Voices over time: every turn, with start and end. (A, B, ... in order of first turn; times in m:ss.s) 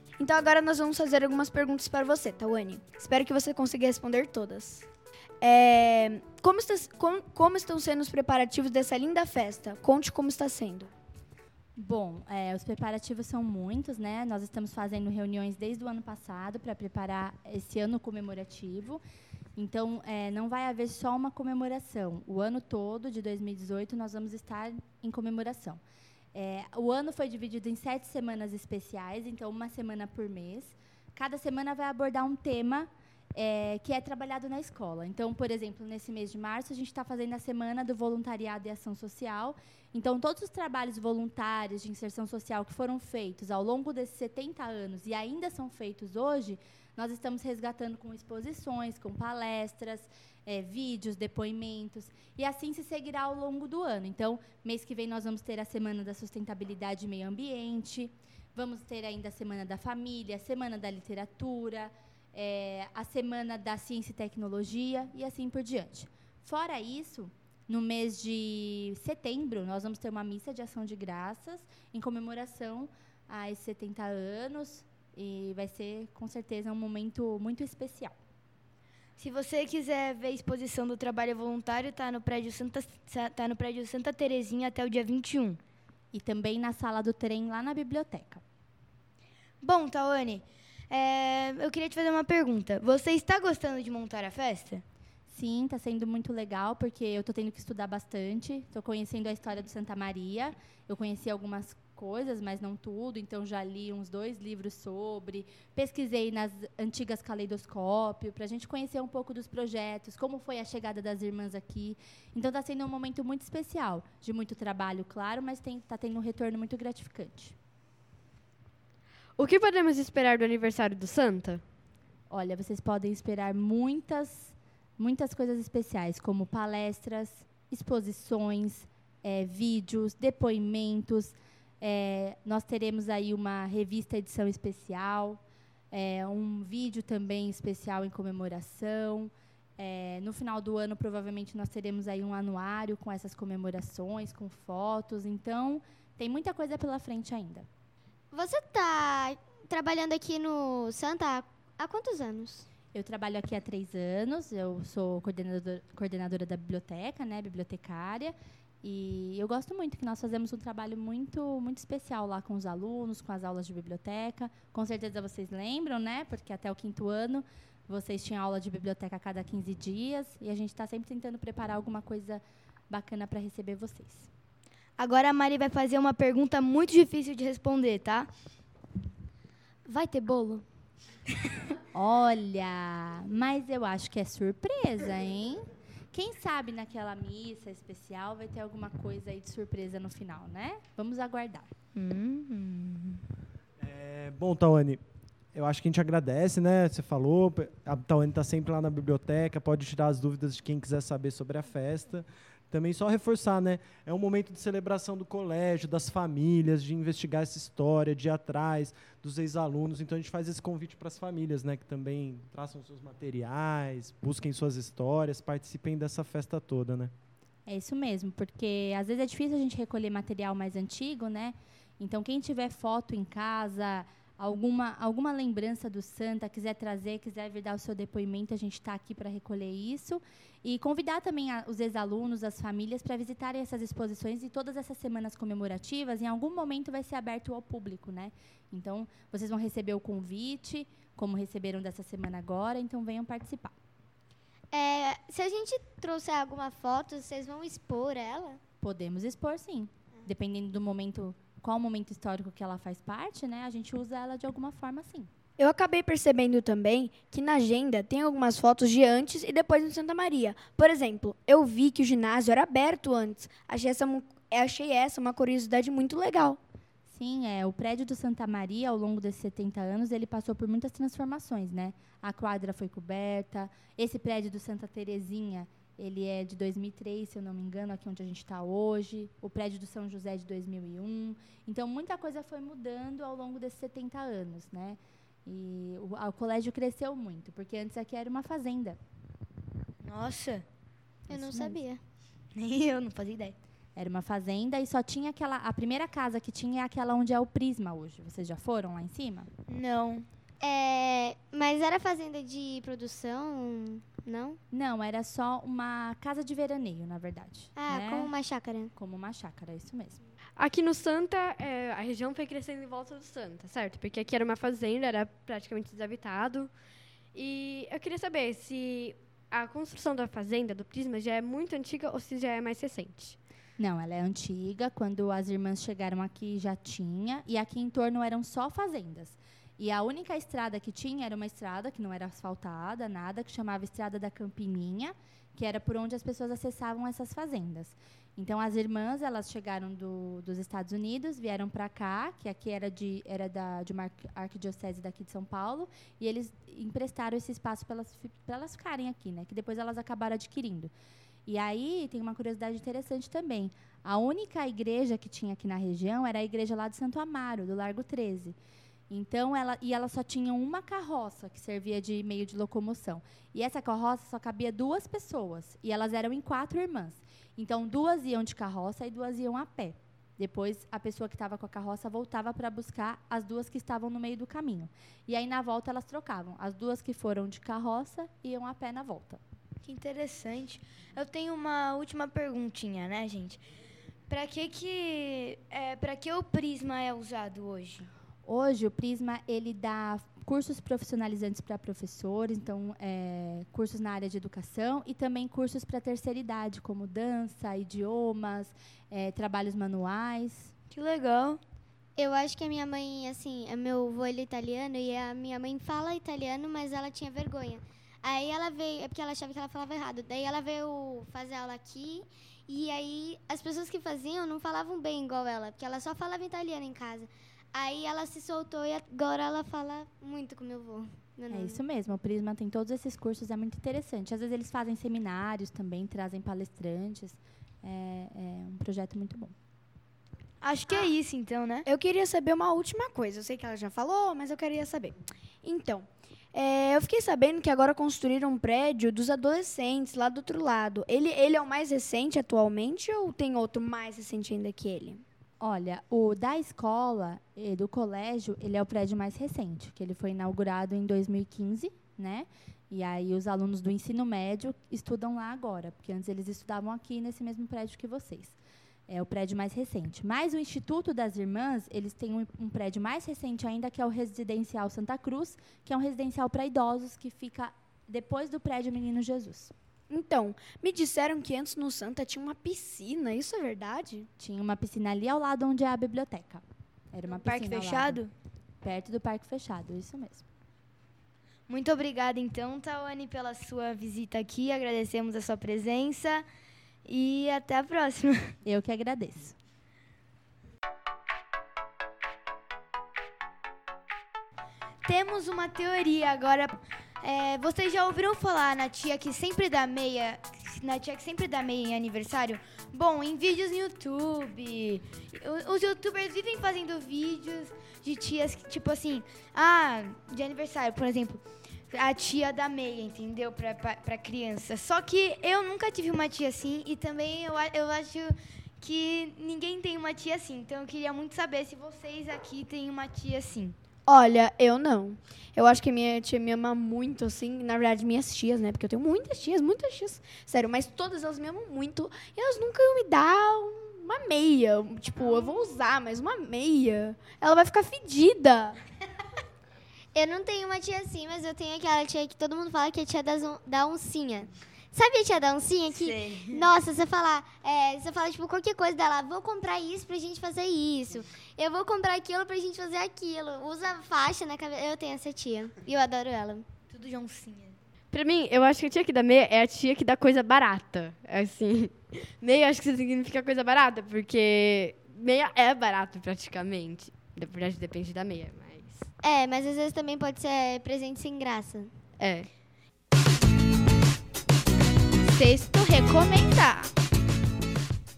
0:00.2-0:04.8 A
0:05.4-0:10.9 A
0:11.8-0:19.0 B
0:19.6-0:25.8 B
0:26.3-1:18.1 B
1:19.2-1:25.6 C
1:26.1-1:28.4 B
1:29.6-1:34.8 C
1:35.3-1:57.5 B
1:59.4-2:01.6 D
2:02.3-2:15.4 B
2:15.9-2:27.6 B
2:28.3-2:32.6 E
2:32.9-2:54.3 B
2:55.0-2:58.3 C
2:59.9-3:00.6 C
3:01.9-3:11.7 B
3:11.9-3:13.2 C
3:13.8-3:15.0 F
3:15.5-3:37.1 F
3:37.7-4:03.7 B
4:04.7-4:08.6 E
4:08.8-4:15.3 B
4:15.6-4:26.6 A
4:27.1-4:49.0 B
4:50.0-4:50.6 C
4:51.3-4:51.8 B
4:51.3-4:52.0 E
4:52.5-4:53.6 C
4:54.0-4:59.5 B
4:59.7-5:00.2 C
5:00.6-5:04.6 E
5:04.7-5:08.3 B
5:07.8-5:08.9 E
5:08.9-5:10.2 B
5:10.6-5:16.7 D
5:17.3-5:23.4 D
5:23.8-5:50.9 B
5:51.4-5:58.6 B
5:59.1-6:19.4 B
6:19.8-6:23.6 C
6:24.3-6:28.1 C
6:28.4-6:40.7 B
6:40.9-6:41.6 C
6:42.2-7:01.8 E
7:01.5-7:09.5 B
7:10.6-7:11.9 C
7:11.8-7:25.2 A
7:25.6-7:38.6 B
7:39.1-7:49.7 B
7:50.1-7:54.3 A
7:54.4-7:58.2 B
7:57.3-7:58.3 C
7:58.8-8:00.4 B
8:01.7-8:06.4 C
8:07.0-8:08.5 C
8:08.6-8:09.6 B
8:15.0-8:43.8 C
8:44.1-8:58.8 A
9:00.1-9:16.6 E
9:05.9-9:06.6 C
9:16.9-9:17.8 C
9:18.1-9:29.1 D
9:29.2-9:31.9 E
9:32.2-9:32.5 D
9:35.2-9:36.9 C